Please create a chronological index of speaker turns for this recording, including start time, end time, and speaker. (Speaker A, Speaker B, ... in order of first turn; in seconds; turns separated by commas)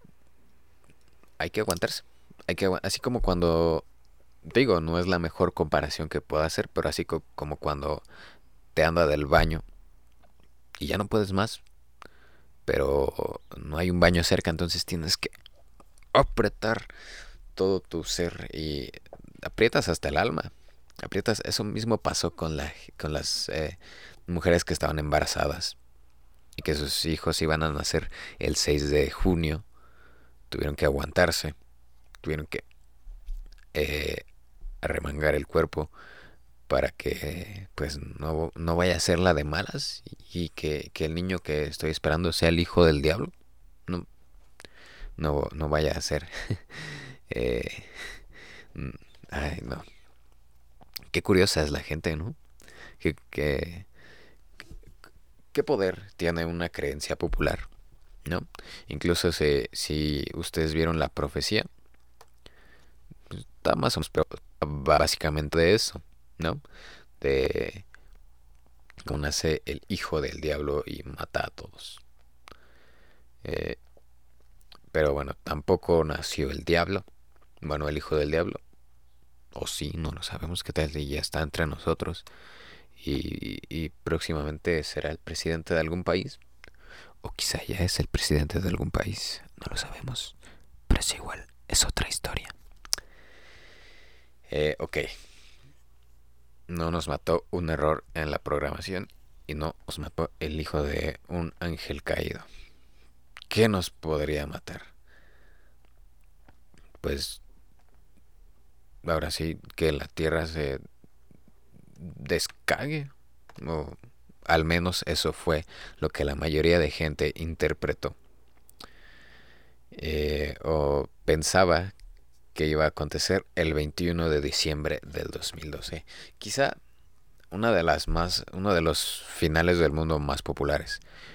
Speaker A: 1.4-3.9, Speaker A: 4.4-8.0, Speaker A: 8.8-9.6, Speaker A: 10.8-11.6, Speaker A: 12.7-15.3, Speaker A: 16.1-16.9, Speaker A: 17.6-20.5, Speaker A: 21.0-25.8, Speaker A: 26.6-29.7, Speaker A: 30.5-31.6, Speaker A: 32.2-32.6, Speaker A: 33.7-34.3, Speaker A: 34.8-35.9, Speaker A: 36.7-43.3, Speaker A: 45.2-48.2, Speaker A: 48.7-49.9, Speaker A: 51.1-52.4, Speaker A: 53.0-53.9, Speaker A: 55.5-57.7, Speaker A: 58.3-61.7, Speaker A: 63.3-66.6, Speaker A: 67.2-67.8, Speaker A: 69.0-72.0, Speaker A: 73.4-73.8, Speaker A: 74.9-77.0, Speaker A: 77.6-78.6, Speaker A: 79.5-82.3, Speaker A: 83.0-86.4, Speaker A: 87.2-90.3, Speaker A: 90.9-92.5, Speaker A: 94.5-95.1, Speaker A: 96.7-102.5, Speaker A: 103.5-104.9, Speaker A: 107.0-107.4, Speaker A: 109.0-110.8, Speaker A: 112.0-114.0, Speaker A: 114.5-118.2, Speaker A: 119.9-121.9, Speaker A: 122.5-126.8, Speaker A: 127.5-131.0